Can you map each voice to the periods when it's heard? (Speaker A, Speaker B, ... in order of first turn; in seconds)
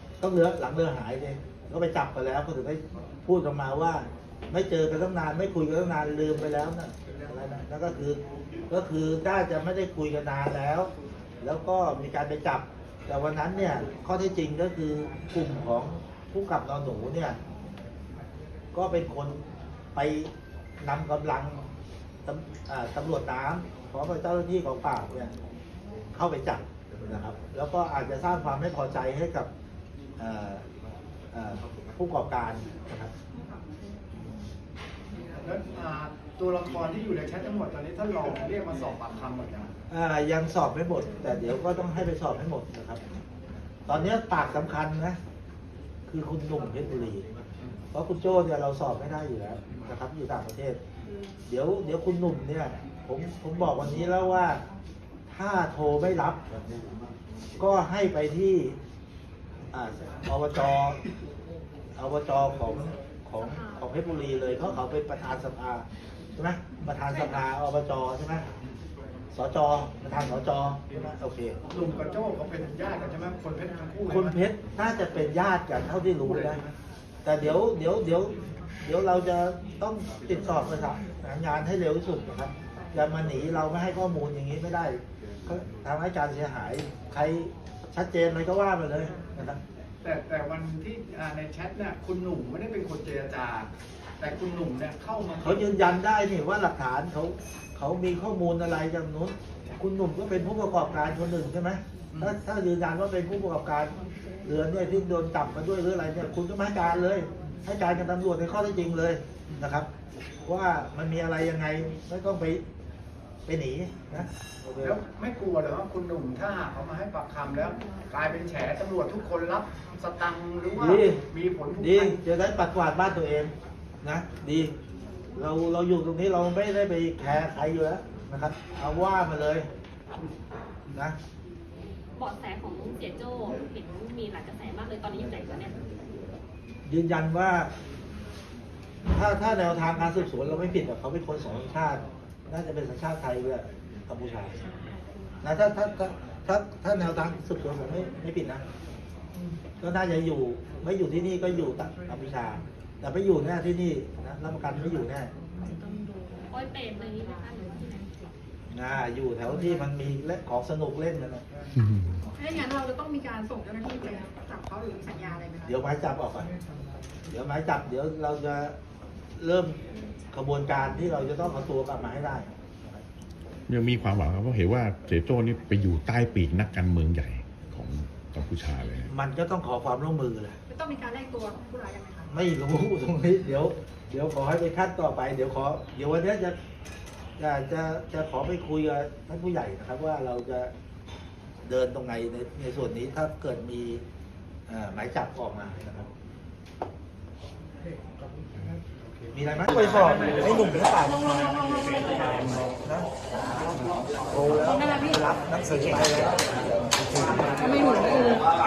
Speaker A: 0.2-10.9, 11.4-17.4, 18.7-21.6, 22.2-25.3, 26.1-29.5, 30.2-30.6, 31.3-33.1, 39.9-43.0, 43.9-45.2, 46.1-47.2, 47.9-50.8, 51.5-54.6, 55.3-56.4, 57.6-58.8, 59.7-61.0, 62.0-68.5, 69.3-71.6, 74.1-76.6, 77.2-89.6, 95.4-109.9, 110.5-112.6, 113.5-115.0, 120.8-121.2, 121.8-124.7, 125.4-129.7, 136.9-137.7, 139.1-144.6, 145.4-148.6, 149.8-155.3, 158.7-161.4, 165.7-166.5, 167.3-168.8, 169.4-169.8, 170.3-173.0, 179.1-180.6, 182.3-186.6, 187.4-190.7, 191.7-194.0, 194.7-196.1, 199.3-202.1, 202.8-203.1, 204.3-206.7, 207.3-208.4
Speaker B: 35.4-39.7, 71.7-74.4, 90.0-95.7, 114.8-122.2
Speaker C: 63.4-63.8, 132.2-135.8, 156.5-158.1
Speaker D: 162.4-165.7, 180.7-182.3, 201.5-202.2, 207.7-208.4
Speaker E: 173.7-179.1